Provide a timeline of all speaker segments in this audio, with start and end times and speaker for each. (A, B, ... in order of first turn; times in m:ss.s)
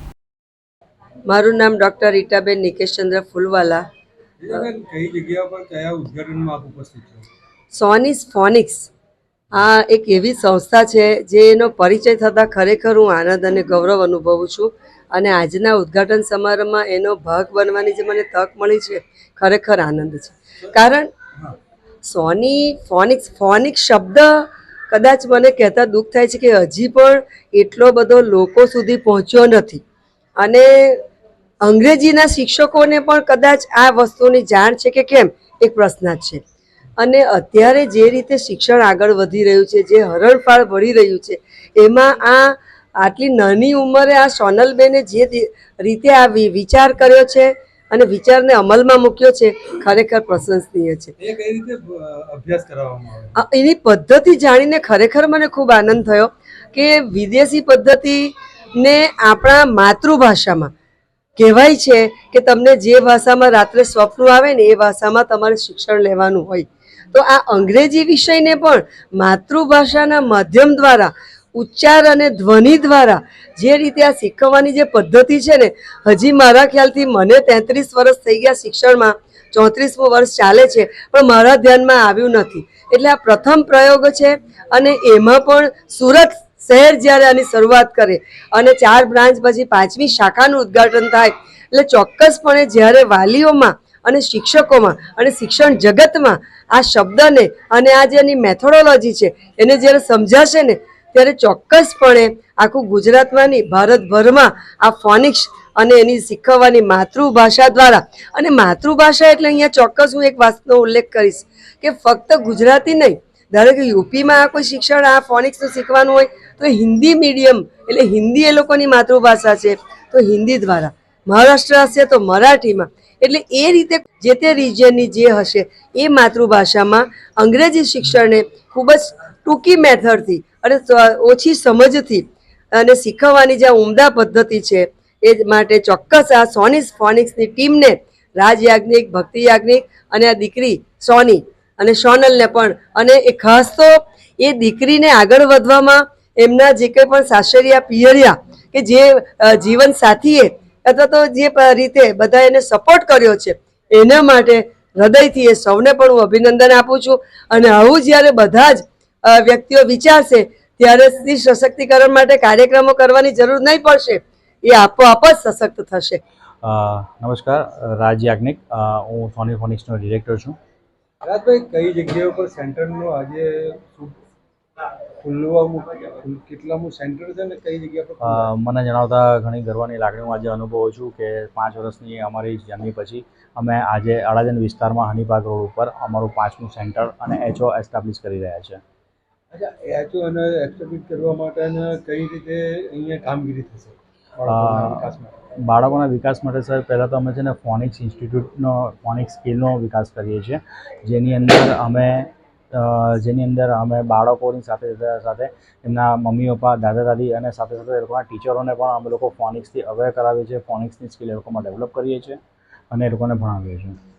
0:01.3-0:03.8 A
0:04.4-0:07.3 B
0:07.7-0:08.9 A
0:09.5-0:21.1 A
0:22.0-0:29.8 A
0:30.4-0:31.0 A
0:31.6-0:36.4 A
0:37.0-0:51.1 A
0:51.2-0:53.4 B
0:53.4-1:00.7 A
1:01.4-2:46.2 A
2:46.6-2:50.6 C
2:51.2-2:54.2 B
2:55.2-2:58.5 B
2:58.3-3:08.8 C
3:09.5-3:15.3 B
3:14.5-3:15.0 C
3:15.6-3:32.4 C
3:32.9-3:34.0 C